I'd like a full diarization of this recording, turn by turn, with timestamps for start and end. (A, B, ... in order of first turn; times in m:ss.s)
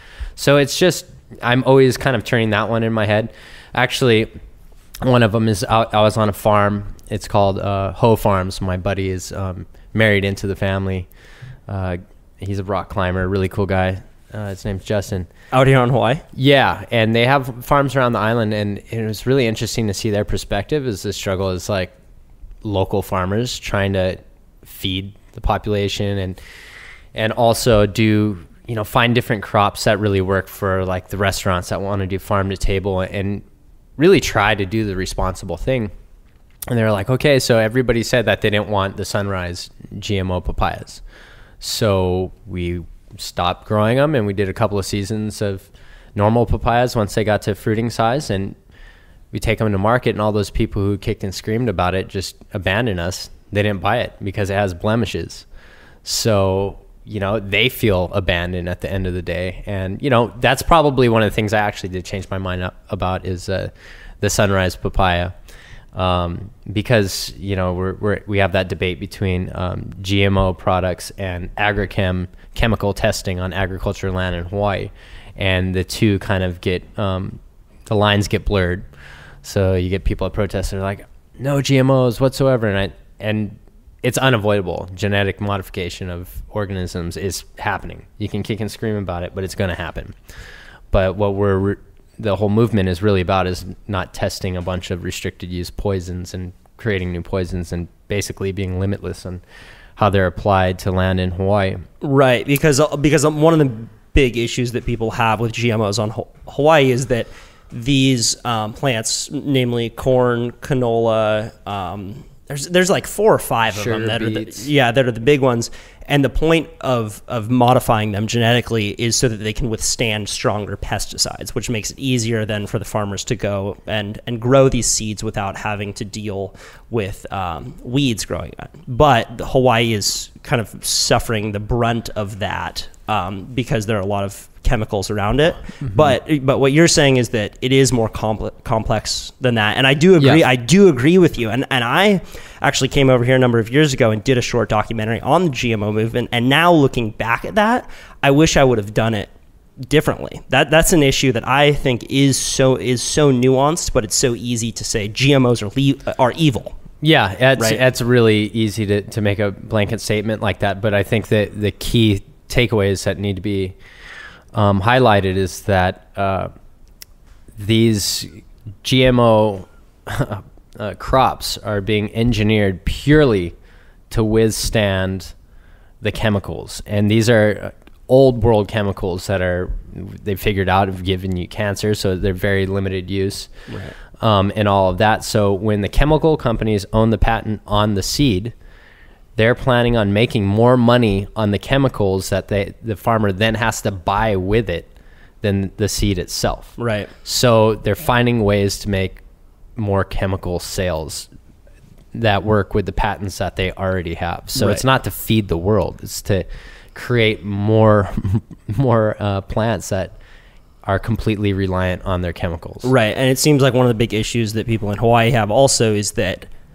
0:00.4-0:04.3 A
0:05.0-0:11.1 A
0:11.7-0:15.3 A
0:15.5-0:16.2 B
0:16.3-0:21.9 A
0:22.6-0:26.4 A
0:27.1-0:33.4 A
0:34.0-0:35.9 A
0:36.7-0:41.0 A
0:41.6-0:48.6 A
0:49.3-0:55.4 A
0:56.0-1:05.3 A
1:05.9-1:18.9 A
1:19.4-1:30.2 A
1:30.9-1:39.4 A
1:40.0-1:41.8 A
1:42.0-2:36.7 B
1:53.7-1:54.7 A
2:15.9-2:16.1 A
2:37.0-2:43.8 A
2:37.6-2:37.8 B
2:44.5-2:46.5 A
2:47.6-2:48.3 A
2:48.8-2:53.6 A
2:54.1-2:55.3 A
2:56.0-3:03.5 A
3:03.7-3:04.0 B
3:04.2-3:08.5 A
3:09.4-3:14.9 A
3:15.4-3:19.2 A
3:16.8-3:17.1 B
3:19.8-3:21.3 A
3:22.1-3:30.2 A
3:24.6-3:24.8 B
3:30.8-3:32.9 A
3:32.8-3:36.5 B